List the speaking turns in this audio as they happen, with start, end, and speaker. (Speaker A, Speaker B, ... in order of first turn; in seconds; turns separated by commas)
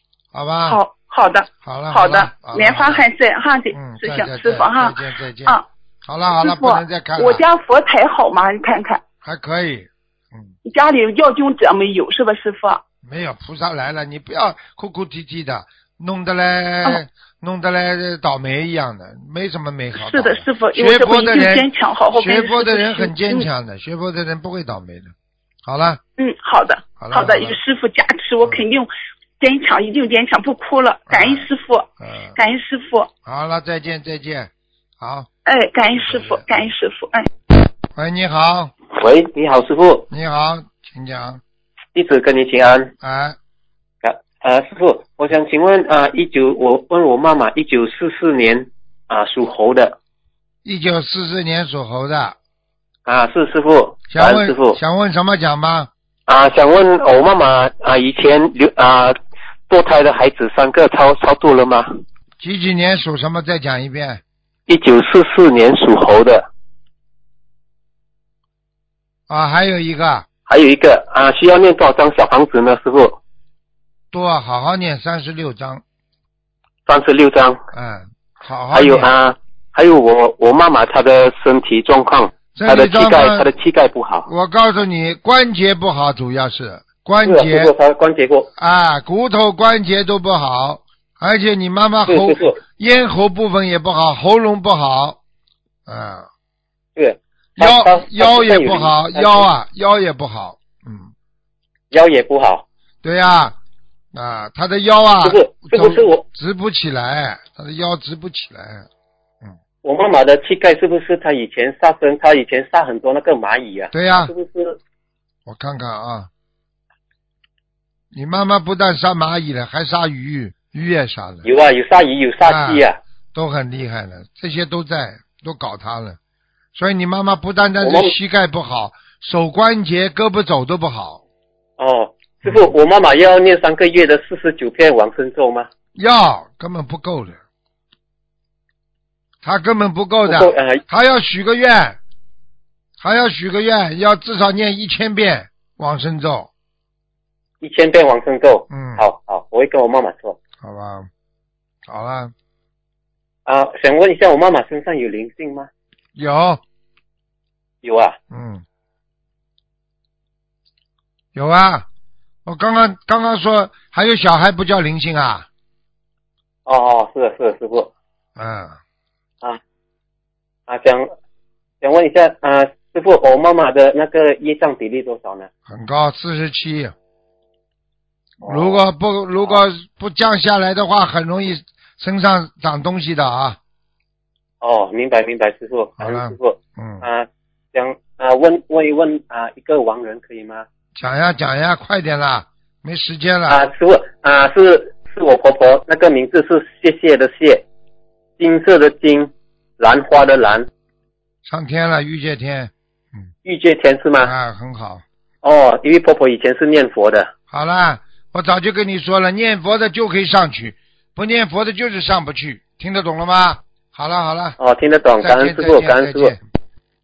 Speaker A: 0.3-0.8, Speaker B: 0.7-5.7, Speaker A: 1.6-3.0, Speaker A: 3.7-7.4, Speaker B: 6.4-9.0, Speaker A: 9.2-10.5, Speaker B: 10.7-12.8, Speaker A: 13.0-25.1, Speaker B: 20.0-23.5, Speaker A: 25.6-26.0, Speaker B: 26.2-28.9, Speaker A: 27.0-27.6, Speaker B: 29.4-33.1, Speaker A: 31.1-31.5, Speaker A: 32.0-32.4, Speaker A: 33.3-35.3, Speaker B: 35.5-37.3, Speaker A: 36.0-36.6, Speaker A: 38.0-38.7, Speaker C: 39.0-40.1, Speaker A: 40.1-41.4, Speaker C: 42.0-42.9, Speaker A: 43.0-43.4, Speaker C: 44.0-50.0, Speaker A: 50.6-52.4, Speaker C: 53.1-54.8, Speaker A: 54.1-55.9, Speaker C: 56.3-59.2, Speaker C: 59.7-61.9, Speaker A: 62.4-64.2, Speaker C: 64.7-66.5, Speaker A: 69.3-70.3, Speaker C: 70.5-73.2, Speaker A: 74.1-75.8, Speaker C: 76.9-77.6, Speaker A: 77.7-79.1, Speaker C: 78.7-84.3, Speaker A: 82.5-83.5, Speaker A: 84.3-87.7, Speaker C: 87.2-88.5, Speaker A: 88.6-95.2, Speaker C: 92.1-92.6, Speaker A: 95.9-96.3, Speaker C: 97.0-99.5, Speaker A: 97.6-101.1, Speaker C: 101.9-102.7, Speaker A: 103.0-103.6, Speaker A: 104.1-108.9, Speaker C: 105.2-106.2, Speaker C: 109.8-114.8, Speaker A: 113.9-114.3, Speaker A: 115.5-116.3, Speaker A: 118.1-121.5, Speaker C: 121.4-123.0, Speaker A: 122.4-126.2, Speaker A: 126.8-131.2, Speaker C: 127.8-128.1, Speaker C: 131.8-135.7, Speaker A: 132.4-132.7, Speaker A: 136.0-137.4, Speaker A: 139.4-142.0, Speaker C: 140.3-140.8, Speaker A: 143.0-146.5, Speaker C: 147.6-150.4, Speaker A: 148.7-149.1, Speaker A: 150.6-151.1, Speaker A: 151.9-152.3, Speaker C: 153.5-155.7, Speaker A: 156.2-156.6, Speaker C: 157.8-158.2, Speaker A: 158.3-158.6, Speaker A: 161.3-161.9, Speaker A: 162.5-165.5, Speaker C: 166.7-167.9, Speaker A: 168.4-168.8, Speaker C: 170.7-171.1, Speaker C: 171.8-175.5, Speaker A: 175.7-176.9, Speaker A: 178.4-183.6, Speaker C: 178.4-178.8, Speaker C: 184.6-190.7, Speaker A: 186.0-187.1, Speaker A: 191.0-193.6, Speaker C: 193.5-197.7, Speaker C: 198.4-200.7, Speaker A: 201.4-203.2, Speaker C: 203.4-204.3, Speaker A: 204.2-205.0, Speaker C: 205.4-207.3, Speaker A: 207.5-214.6, Speaker C: 214.6-216.3, Speaker A: 215.2-216.4